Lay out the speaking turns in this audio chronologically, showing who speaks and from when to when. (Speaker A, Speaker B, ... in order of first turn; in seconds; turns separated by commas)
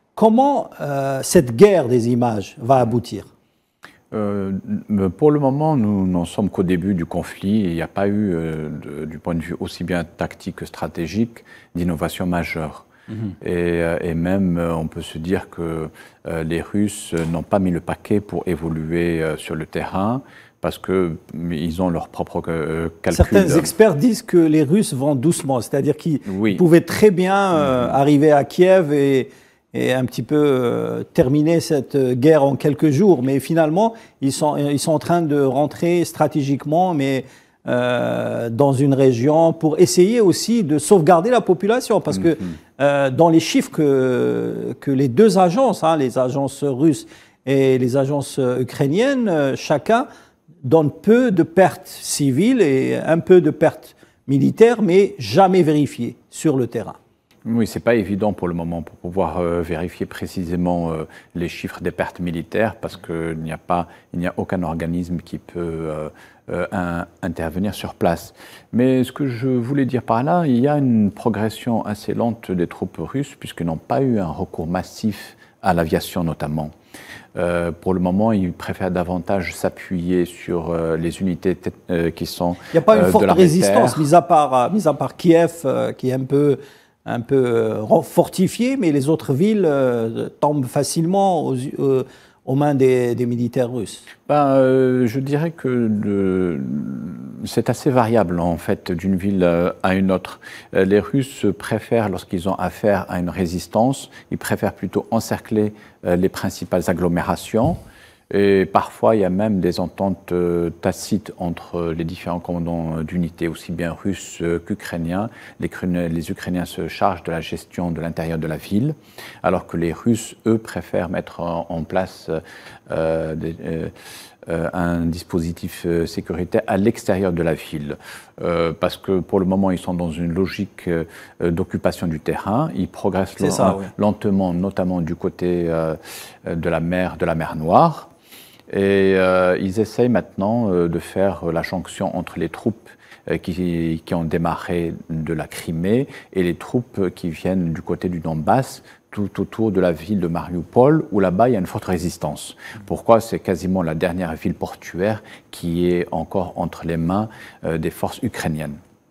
Speaker A: 0.1-3.3, Speaker B: 4.1-12.9, Speaker B: 13.4-23.7, Speaker A: 23.1-50.0, Speaker B: 26.2-26.6, Speaker A: 50.6-57.0, Speaker B: 57.5-76.7, Speaker B: 77.3-84.0, Speaker A: 82.7-94.0, Speaker B: 94.3-107.8, Speaker B: 108.3-123.9, Speaker B: 124.5-138.1, Speaker A: 133.4-133.9, Speaker B: 138.7-158.8